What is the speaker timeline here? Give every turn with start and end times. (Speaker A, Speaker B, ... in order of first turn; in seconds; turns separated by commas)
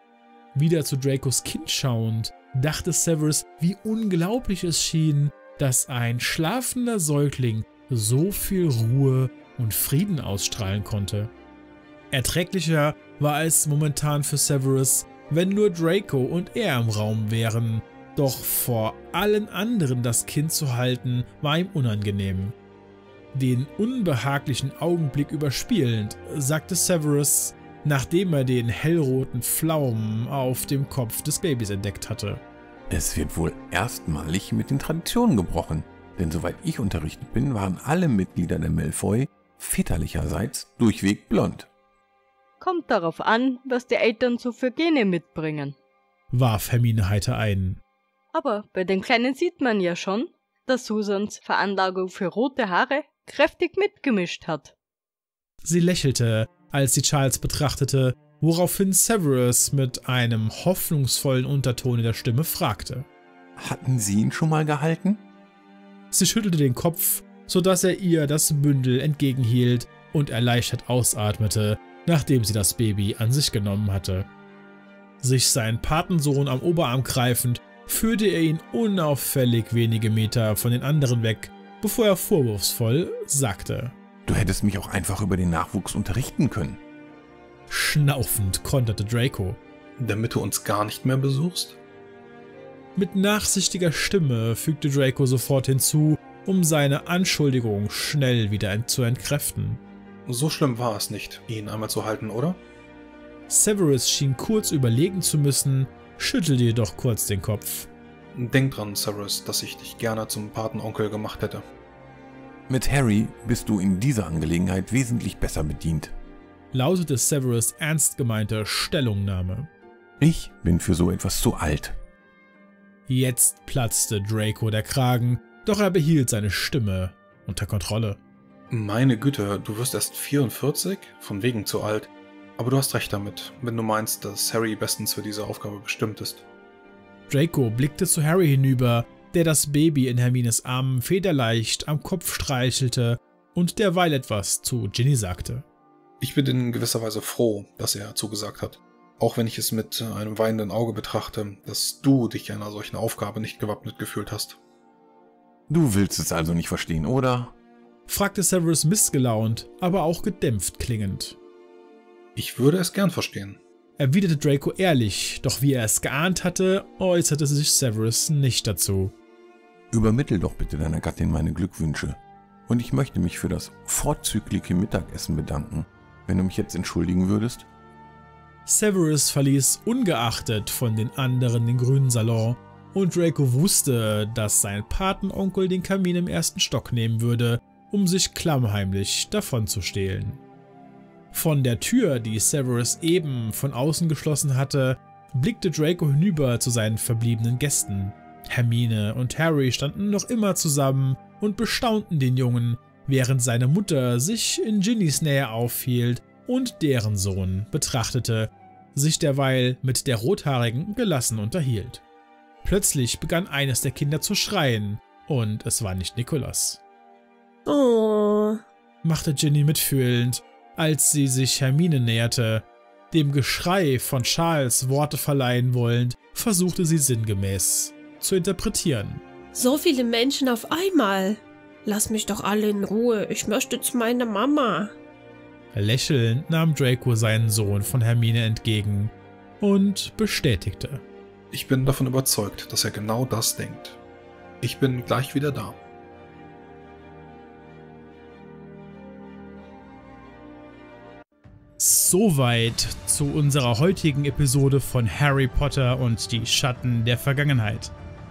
Speaker A: 0.5-11.3, Speaker A: 12.1-22.5, Speaker A: 23.3-32.4, Speaker B: 32.9-41.7, Speaker C: 42.6-45.7, Speaker A: 46.3-47.8, Speaker C: 48.3-54.7, Speaker A: 55.6-63.1, Speaker B: 63.6-65.2, Speaker A: 66.1-74.3, Speaker A: 75.2-83.9, Speaker B: 84.2-86.8, Speaker A: 87.7-89.6, Speaker D: 90.0-91.8, Speaker A: 93.0-99.8, Speaker D: 100.2-102.6, Speaker A: 103.5-107.9, Speaker D: 108.3-111.6, Speaker B: 112.7-116.1, Speaker A: 116.7-119.7, Speaker B: 120.2-121.9, Speaker A: 123.1-128.2, Speaker D: 128.7-136.4, Speaker A: 137.3-145.6, Speaker D: 146.2-154.6, Speaker B: 155.7-157.5, Speaker A: 158.1-161.4, Speaker D: 162.3-163.6, Speaker A: 164.0-169.1, Speaker B: 169.9-177.7, Speaker A: 178.7-190.4, Speaker A: 191.3-212.0, Speaker A: 212.6-216.8, Speaker E: 217.7-218.6, Speaker A: 219.0-229.2, Speaker E: 229.5-234.9, Speaker A: 235.7-241.0, Speaker D: 241.5-244.0, Speaker D: 244.6-245.8, Speaker A: 251.8-257.9